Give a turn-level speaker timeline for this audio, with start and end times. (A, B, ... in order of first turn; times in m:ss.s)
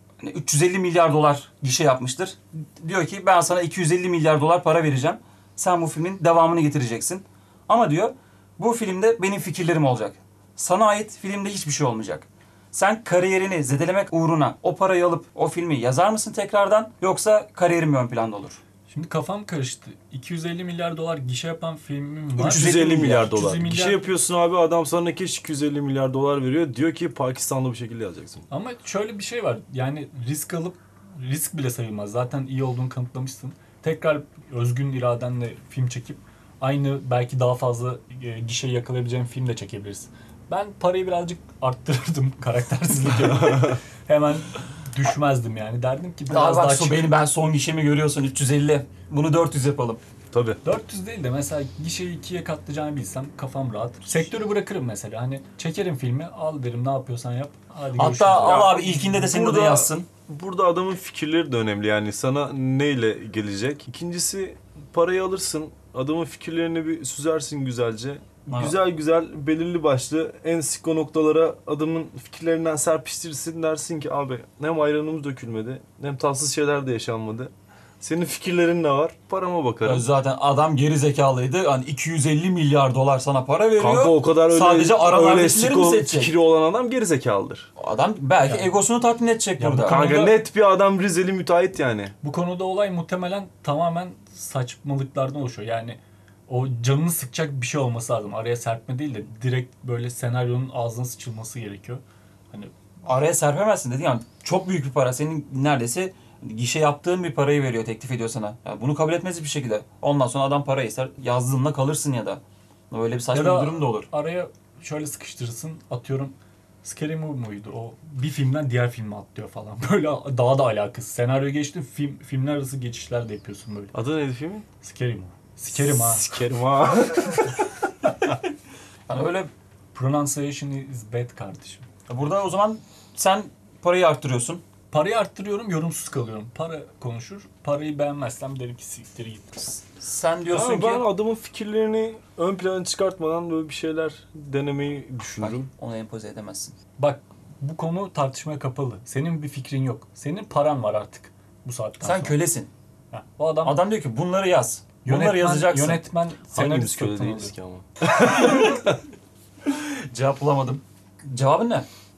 0:00.2-0:18.6 A
0:18.9-0:24.1 B
0:22.4-0:23.3 A
0:22.4-0:28.4 C
0:28.5-0:47.1 B
0:46.3-0:50.0 A
0:50.3-0:50.6 C
0:50.6-0:59.0 B
0:58.0-1:00.1 A
0:58.6-1:20.1 C
1:08.5-1:08.8 A
1:19.8-1:26.3 A
1:23.8-1:27.7 C
1:27.8-1:30.0 A
1:29.6-1:30.4 B
1:29.9-1:32.1 C
1:32.2-1:42.7 B
1:43.1-1:54.1 A
1:53.3-2:03.9 B
2:03.9-2:04.7 C
2:04.8-2:06.3 B
2:05.7-2:07.6 C
2:09.1-2:09.5 A
2:09.9-2:11.9 B
2:12.1-2:14.6 A
2:14.9-2:19.5 B
2:19.6-2:21.1 A
2:20.5-2:25.7 C
2:25.4-2:26.8 A
2:27.0-2:32.4 B
2:32.0-2:32.7 A
2:33.1-2:33.8 B
2:33.6-2:36.0 A
2:35.0-2:37.5 B
2:36.5-2:39.0 C
2:39.7-2:41.9 A